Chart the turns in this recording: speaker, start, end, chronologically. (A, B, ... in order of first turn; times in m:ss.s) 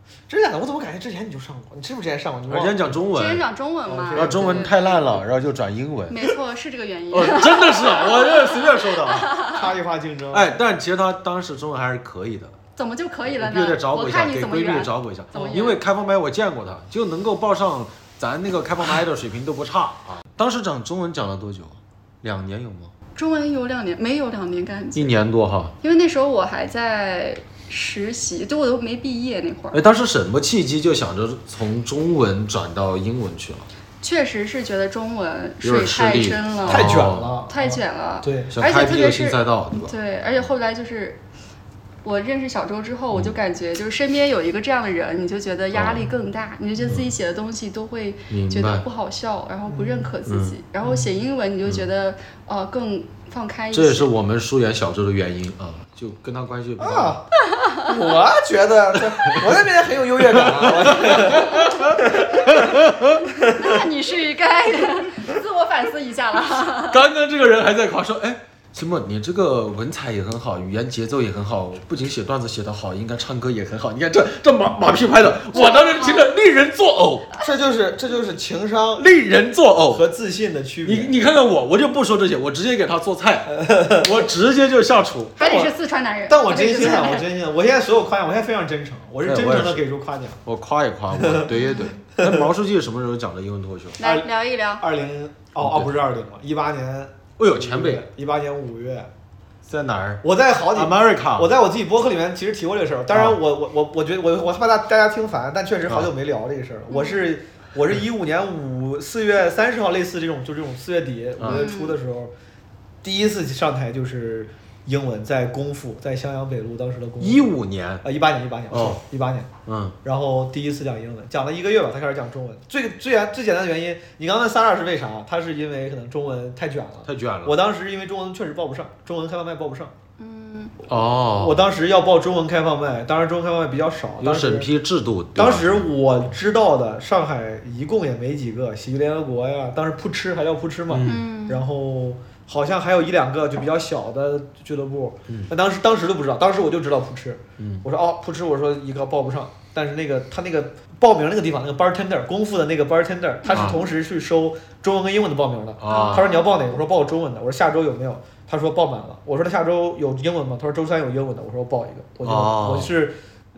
0:00.3-0:03.0 A
0:02.5-0:03.4 B
0:03.1-0:05.0 C
0:03.9-0:04.7 A
0:04.2-0:06.2 B
0:06.1-0:09.6 C
0:07.1-0:09.4 B
0:09.5-0:10.5 A
0:10.3-0:12.6 B
0:12.8-0:15.8 C
0:13.3-0:22.9 B
0:15.3-0:15.8 A
0:23.2-0:25.1 C
0:24.9-0:25.7 B
0:25.8-0:29.8 C
0:29.7-0:33.7 B
0:34.0-0:41.2 C
0:35.6-0:37.3 B
0:36.7-0:38.5 A
0:38.5-0:40.0 B
0:42.0-0:54.1 C
0:45.7-0:46.1 B
0:48.3-0:48.9 B
0:49.7-0:50.1 A
0:50.3-0:50.6 B
0:53.7-0:57.2 B
0:56.8-0:57.2 A
0:57.5-0:57.8 C
0:57.8-1:02.8 A
0:59.0-0:59.4 B
1:00.3-1:03.2 B
1:03.4-1:07.0 C
1:06.8-1:17.3 B
1:15.5-1:16.3 C
1:17.4-1:19.0 A
1:19.0-1:20.1 B
1:19.9-1:21.1 A
1:20.8-1:25.4 B
1:23.5-1:24.1 A
1:25.4-1:25.7 A
1:25.4-1:27.3 C
1:26.3-1:30.4 A
1:29.2-1:29.8 B
1:30.4-1:34.0 B
1:31.2-1:31.5 A
1:31.5-1:32.0 C
1:32.2-1:32.5 A
1:34.0-1:34.8 C
1:34.0-1:39.1 A
1:35.6-1:35.9 B
1:37.4-1:38.1 B
1:39.6-1:41.6 B
1:40.2-1:52.3 A
1:43.1-1:43.4 B
1:45.9-1:46.1 B
1:46.9-1:47.3 C
1:51.4-1:51.7 B
1:51.5-1:52.0 C
1:53.0-1:57.5 A
1:57.2-1:58.0 B
1:58.0-1:59.5 A
1:58.7-1:59.0 B
1:59.7-2:00.0 B
2:00.0-2:09.9 A
2:07.0-2:07.6 B
2:10.2-2:10.8 C
2:10.9-2:11.7 B
2:11.4-2:14.7 A
2:14.2-2:15.9 B
2:15.4-2:43.2 A
2:20.9-2:21.2 B
2:21.1-2:21.6 C
2:27.6-2:27.8 B
2:33.4-2:33.9 C
2:33.5-2:33.8 B
2:35.8-2:36.3 B
2:35.9-2:36.8 C
2:42.2-2:42.9 B